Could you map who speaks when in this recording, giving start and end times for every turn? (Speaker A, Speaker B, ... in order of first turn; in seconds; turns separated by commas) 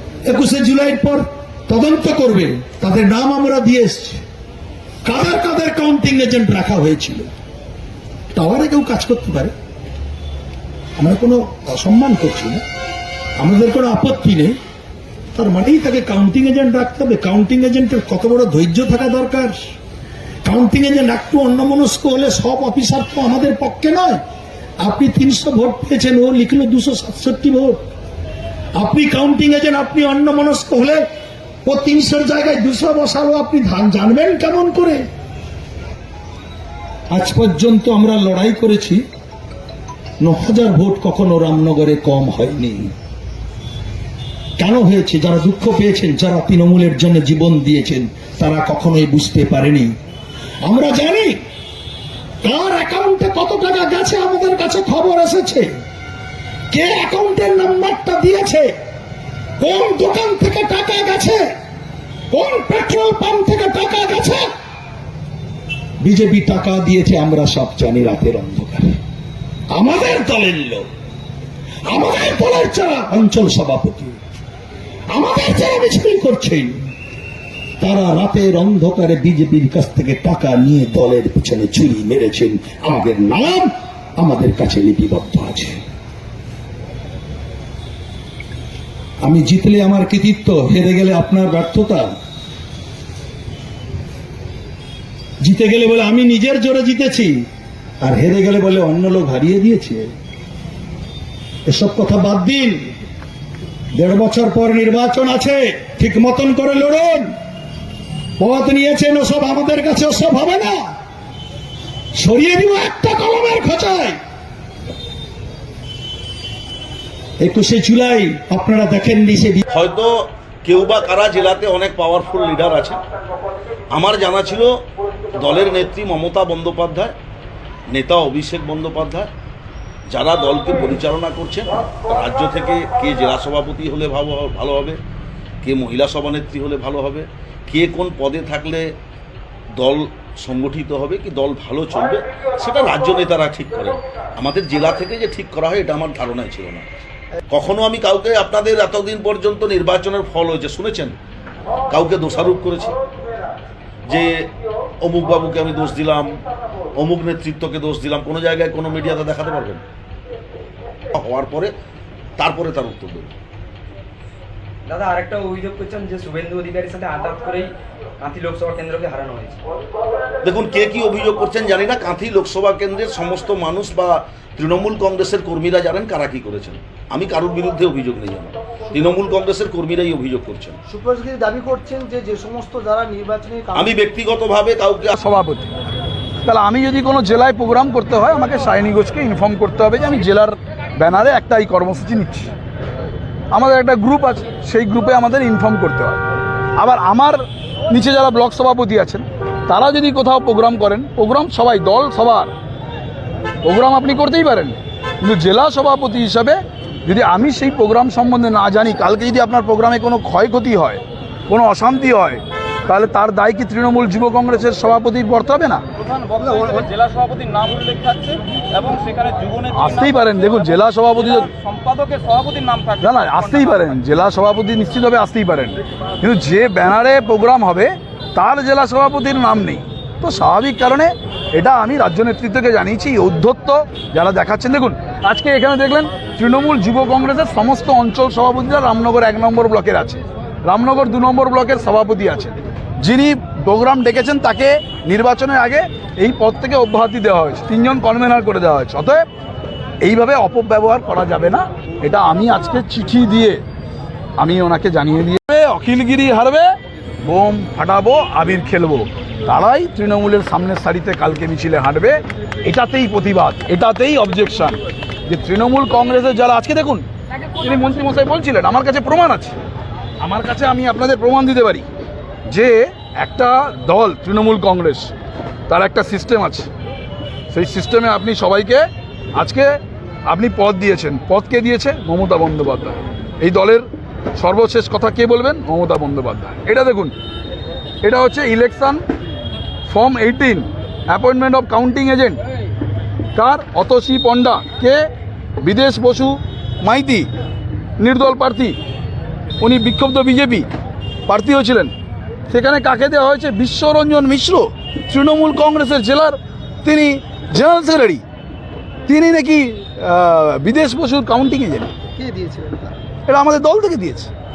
Speaker A: 0.2-4.2, Speaker A: 5.0-7.3, Speaker A: 8.3-9.5, Speaker A: 11.0-12.6, Speaker A: 13.4-14.6, Speaker A: 15.3-19.7, Speaker A: 20.4-24.2, Speaker A: 24.8-27.9, Speaker A: 28.8-31.0, Speaker A: 31.6-35.1, Speaker A: 37.1-39.0, Speaker A: 40.2-42.9, Speaker A: 44.6-49.9, Speaker A: 50.6-51.4, Speaker A: 52.4-55.7, Speaker A: 56.7-58.7, Speaker A: 59.6-61.5, Speaker A: 62.3-64.5, Speaker A: 66.0-69.0, Speaker A: 69.7-70.8, Speaker A: 71.9-74.2, Speaker A: 75.1-76.9, Speaker A: 77.8-85.8, Speaker A: 89.2-92.1, Speaker A: 95.4-97.4, Speaker A: 98.0-100.1, Speaker A: 101.7-102.9, Speaker A: 103.9-107.3, Speaker A: 108.4-110.8, Speaker A: 112.2-114.2, Speaker A: 117.4-119.7, Speaker B: 119.7-123.0, Speaker B: 123.9-124.8, Speaker B: 125.3-127.2, Speaker B: 127.9-129.3, Speaker B: 130.1-135.0, Speaker B: 135.6-138.9, Speaker B: 139.8-146.9, Speaker B: 147.5-151.2, Speaker B: 151.9-153.0, Speaker B: 154.1-154.5, Speaker B: 155.0-156.4, Speaker B: 156.9-159.8, Speaker B: 161.1-161.7, Speaker B: 162.4-163.3, Speaker C: 164.9-169.6, Speaker B: 170.4-180.8, Speaker D: 180.9-183.9, Speaker B: 183.7-185.2, Speaker E: 185.1-185.7, Speaker E: 186.4-192.5, Speaker E: 193.5-196.2, Speaker E: 196.8-202.5, Speaker E: 203.6-215.8, Speaker F: 215.9-219.9, Speaker E: 219.7-221.5, Speaker F: 221.5-223.0, Speaker E: 223.0-249.2, Speaker E: 250.0-253.6, Speaker E: 254.4-256.7, Speaker E: 257.2-269.6, Speaker E: 270.2-271.9, Speaker E: 272.5-275.1, Speaker E: 275.7-276.7, Speaker E: 277.5-287.1, Speaker E: 288.0-289.0, Speaker E: 289.9-292.4, Speaker E: 293.4-295.1, Speaker E: 295.6-297.3, Speaker E: 298.0-298.8, Speaker E: 299.6-300.7, Speaker E: 301.3-301.9, Speaker E: 302.5-308.2, Speaker E: 309.1-311.9, Speaker D: 312.2-312.9, Speaker E: 313.3-314.3